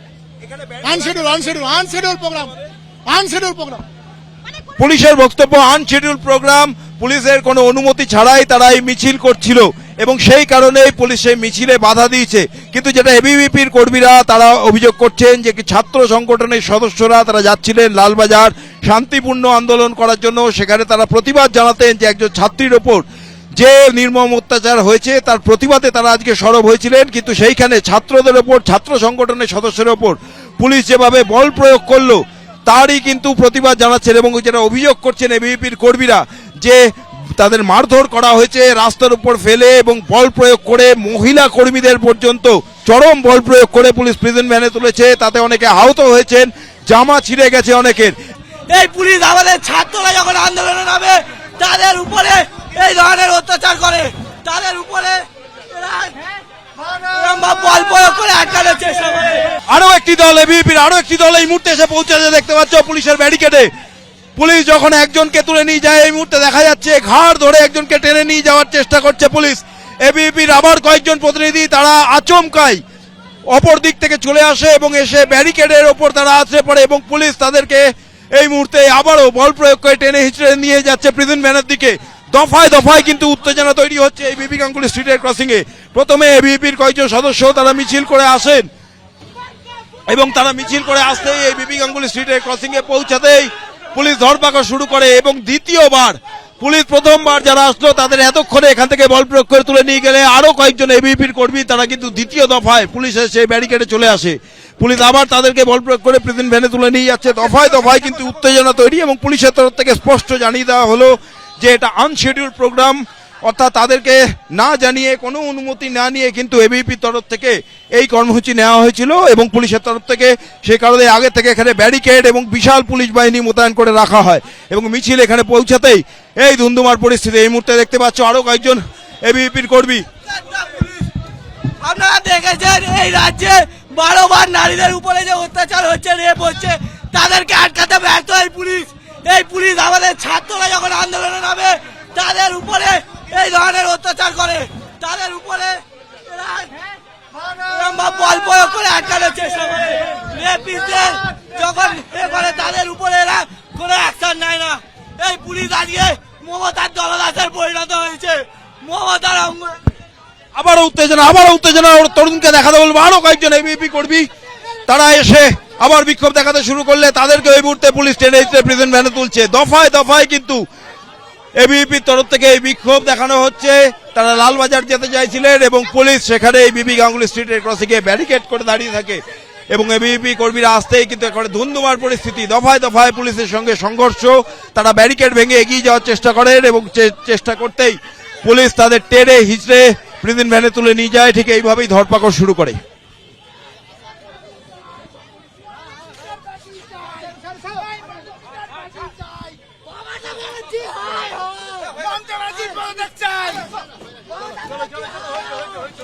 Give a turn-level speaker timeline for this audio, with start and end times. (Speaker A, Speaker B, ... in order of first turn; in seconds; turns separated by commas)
Speaker A: 0.5-0.8, Speaker B: 0.8-2.5, Speaker B: 3.1-3.8, Speaker A: 4.8-23.0, Speaker A: 23.6-36.8, Speaker A: 37.4-48.1, Speaker C: 48.7-56.4, Speaker C: 56.9-59.6, Speaker A: 59.7-63.7, Speaker A: 64.4-72.8, Speaker A: 73.5-88.7, Speaker A: 90.1-130.1, Speaker C: 130.3-131.1, Speaker C: 131.8-146.9, Speaker C: 147.4-159.9, Speaker A: 160.6-164.3, Speaker A: 164.9-170.6, Speaker A: 171.6-192.8, Speaker C: 200.0-203.7, Speaker C: 204.5-205.7